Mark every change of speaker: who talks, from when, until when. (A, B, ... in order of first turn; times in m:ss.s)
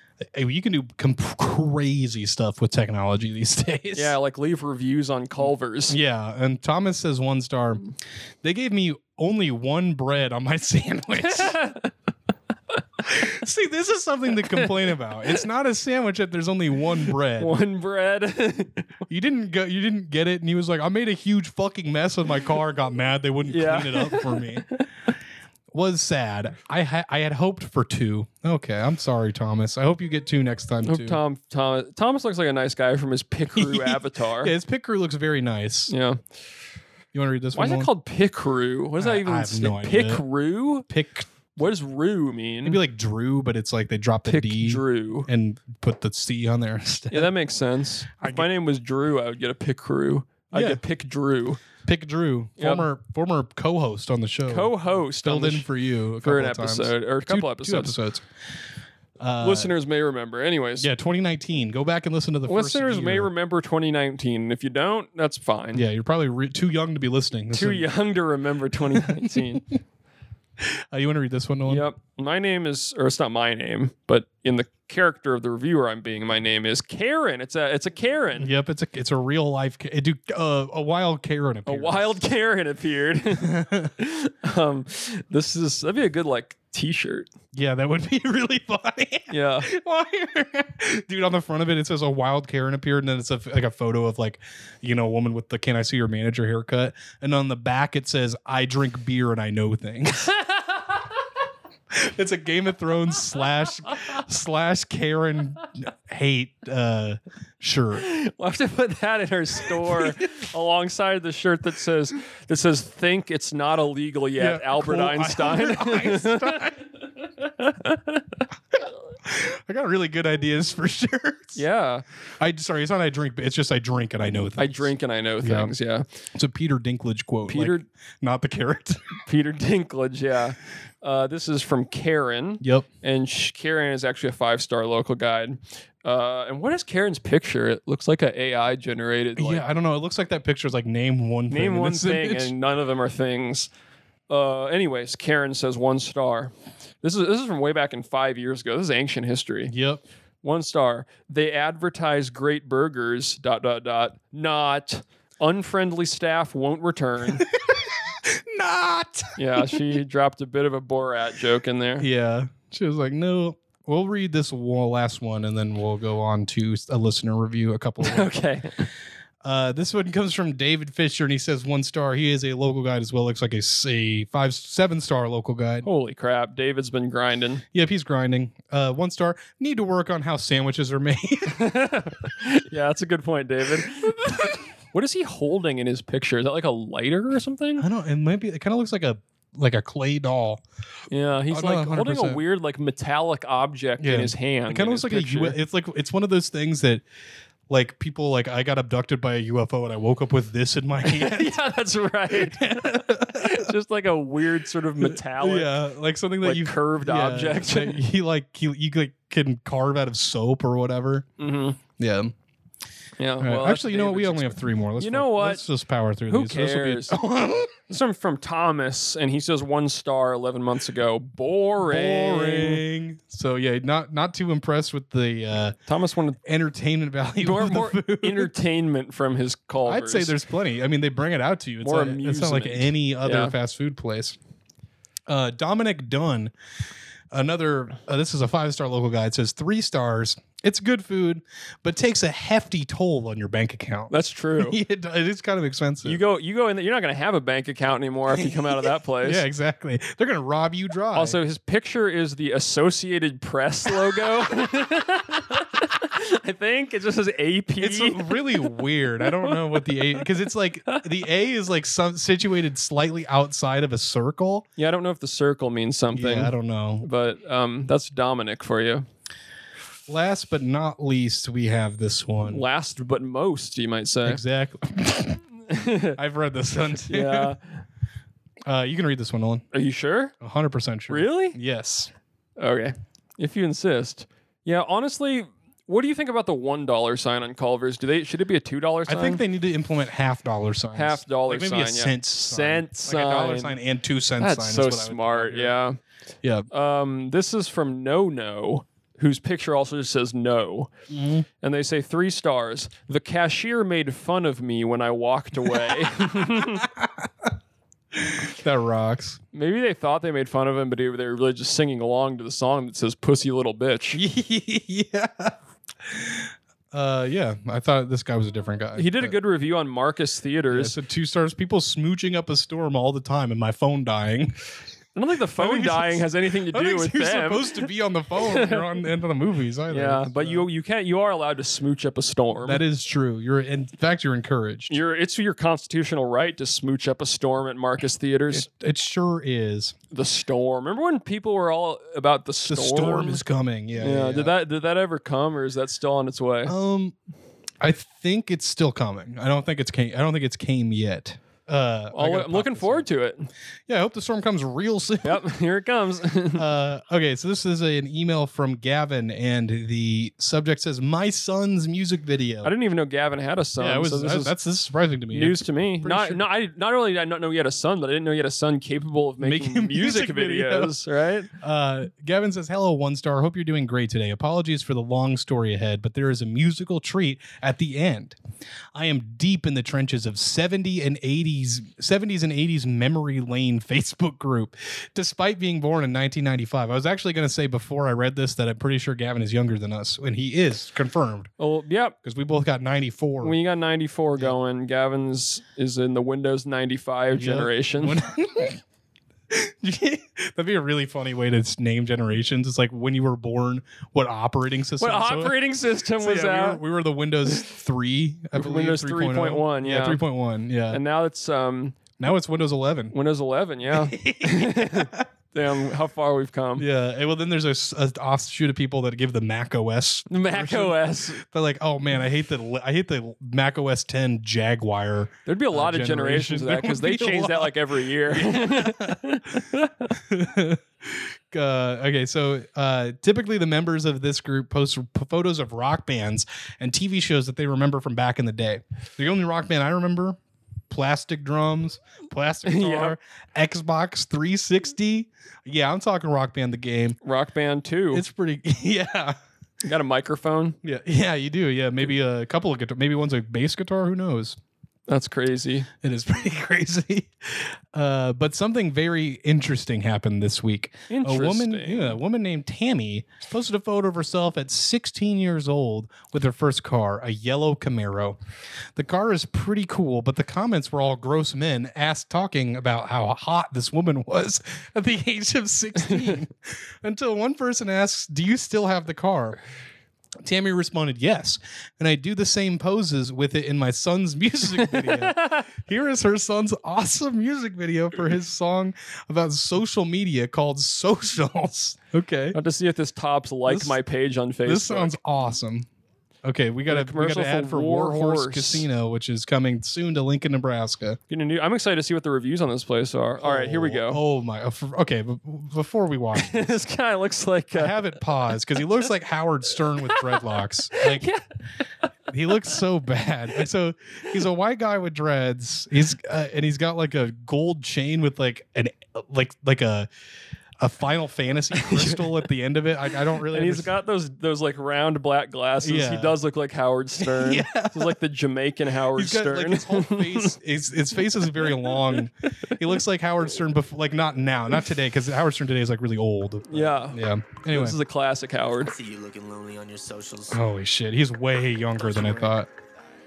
0:00.2-0:04.1 A
0:03.9-0:06.0 B
0:05.9-0:07.9 A
0:08.4-0:11.6 A
0:11.2-0:11.9 B
0:13.0-0:17.6 A
0:17.4-0:19.0 B
0:19.1-0:24.7 A
0:23.4-0:24.8 B
0:25.7-0:31.2 A
0:30.8-0:34.5 B
0:33.5-0:35.9 A
0:35.9-0:36.2 B
0:37.1-0:37.9 A
0:37.5-0:40.8 B
0:39.0-0:40.2 A
0:40.9-0:41.3 A
0:41.5-0:42.8 B
0:42.6-0:47.3 A
0:44.2-0:45.3 B
0:47.1-0:51.6 B
0:48.2-0:48.5 A
0:50.5-0:50.8 A
0:51.8-0:58.2 A
0:52.6-0:52.8 B
0:54.5-0:55.7 B
0:56.2-0:58.0 B
0:59.2-0:59.7 A
0:59.4-1:00.9 B
1:00.8-1:03.3 A
1:02.5-1:05.8 B
1:05.7-1:07.9 A
1:07.5-1:09.7 B
1:08.9-1:09.6 A
1:10.6-1:11.8 A
1:11.6-1:18.5 B
1:18.4-1:22.2 A
1:21.6-1:27.3 B
1:23.4-1:23.9 A
1:27.5-1:40.3 A
1:29.3-1:29.7 B
1:40.4-1:40.8 B
1:41.9-1:48.0 A
1:48.0-1:56.7 B
1:49.6-1:50.2 A
1:54.4-1:56.8 A
1:57.4-1:58.4 B
1:59.2-2:01.6 A
2:01.6-2:02.0 B
2:02.4-2:05.7 A
2:04.6-2:06.0 B
2:06.3-2:09.2 A
2:07.4-2:07.8 B
2:09.2-2:19.6 B
2:12.6-2:12.9 A
2:19.4-2:22.5 A
2:21.5-2:23.7 B
2:24.3-2:29.7 B
2:29.7-2:30.0 A
2:30.4-2:37.4 B
2:37.4-2:39.8 A
2:39.4-2:42.1 B
2:42.0-2:48.3 A
2:48.0-2:48.9 B
2:49.4-2:55.9 A
2:55.8-2:57.6 B
2:57.7-3:01.7 A
3:01.5-3:07.9 B
3:07.8-3:10.6 A
3:11.1-3:15.6 B
3:11.5-3:12.4 A
3:14.0-3:17.0 A
3:17.7-3:21.6 A
3:21.0-3:25.7 B
3:22.3-3:23.7 A
3:25.0-3:31.3 A
3:26.4-3:28.0 B
3:31.4-3:31.8 B
3:31.9-3:32.3 A
3:33.2-3:35.6 B
3:33.4-3:37.8 A
3:36.3-3:37.2 B
3:37.9-3:42.8 B
3:41.8-3:45.8 A
3:45.8-3:46.4 B
3:46.4-3:48.5 A
3:47.4-3:50.4 B
3:49.8-3:54.4 A
3:51.8-3:53.5 B
3:55.3-3:56.5 A
3:57.3-4:06.2 A
4:04.1-4:04.8 B
4:06.0-4:09.4 B
4:08.4-4:08.7 A
4:09.2-4:11.4 A
4:11.1-4:18.7 B
4:17.8-4:24.7 A
4:19.3-4:20.2 B
4:24.8-4:29.0 B
4:26.1-4:27.1 A
4:30.1-4:32.6 A
4:32.4-4:34.4 B
4:34.2-4:35.4 A
4:35.7-4:36.2 B
4:36.2-4:37.6 A
4:37.0-4:37.7 B
4:38.6-4:39.6 A
4:39.7-4:40.3 B
4:40.4-4:42.1 A
4:41.1-4:41.6 B
4:42.6-4:49.4 B
4:49.1-4:55.8 A
4:50.9-4:53.8 B
4:54.4-4:56.0 B
4:56.7-5:00.9 B
5:01.1-5:01.4 A
5:01.6-5:06.8 B
5:06.6-5:07.5 A
5:08.2-5:09.4 A
5:09.5-5:14.2 B
5:14.1-5:19.3 A
5:19.0-5:21.0 B
5:20.7-5:24.6 A
5:25.1-5:27.9 B
5:25.6-5:30.7 A
5:28.4-5:28.8 B
5:29.9-5:32.8 B
5:32.6-5:34.9 A
5:34.9-5:38.7 B
5:38.5-5:39.9 A
5:40.1-5:43.4 B
5:42.7-5:44.5 A
5:44.0-5:46.7 B
5:46.6-5:47.1 A
5:47.8-5:53.0 A
5:52.1-5:53.5 B
5:53.9-5:55.4 A
5:55.2-5:56.6 B
5:56.5-6:02.7 A
6:02.6-6:04.5 B
6:03.8-6:06.4 A
6:05.3-6:11.5 B
6:09.4-6:11.0 A
6:11.6-6:18.4 A
6:18.9-6:31.5 A
6:31.6-6:32.1 B
6:32.2-6:33.6 A
6:33.4-6:38.2 B
6:37.4-6:38.8 A
6:39.5-6:45.6 A
6:45.0-6:46.8 B
6:46.2-6:51.0 A
6:48.5-6:50.2 B
6:50.9-6:52.0 B
6:52.2-6:53.1 A
6:53.1-6:56.8 B
6:53.9-6:55.2 A
6:56.8-7:20.4 A
7:00.3-7:01.4 B
7:05.4-7:10.1 B
7:20.9-7:27.2 A
7:22.6-7:23.1 B
7:27.2-7:28.2 B
7:28.1-7:29.4 A
7:29.8-7:30.8 B
7:30.8-7:34.6 A
7:35.1-7:35.9 B
7:36.0-7:48.4 A
7:41.1-7:42.2 B
7:49.0-7:59.6 A
8:00.4-8:12.6 A
8:04.8-8:05.7 B
8:12.5-8:15.2 B
8:13.7-8:14.0 A
8:14.6-8:15.9 A
8:16.4-8:21.2 A
8:16.9-8:18.9 B
8:21.3-8:24.2 B
8:23.4-8:26.7 A
8:26.3-8:28.1 B
8:27.7-8:31.2 A
8:30.2-8:31.4 B
8:32.3-8:40.1 A
8:40.8-8:43.9 A
8:41.8-8:42.2 B
8:43.5-8:50.5 B
8:45.8-8:46.4 A
8:47.2-8:48.2 A
8:49.1-8:58.0 A
8:51.5-8:52.8 B
8:56.7-8:58.9 B
8:58.8-9:00.6 C
9:00.5-9:02.7 A
9:02.0-9:02.7 C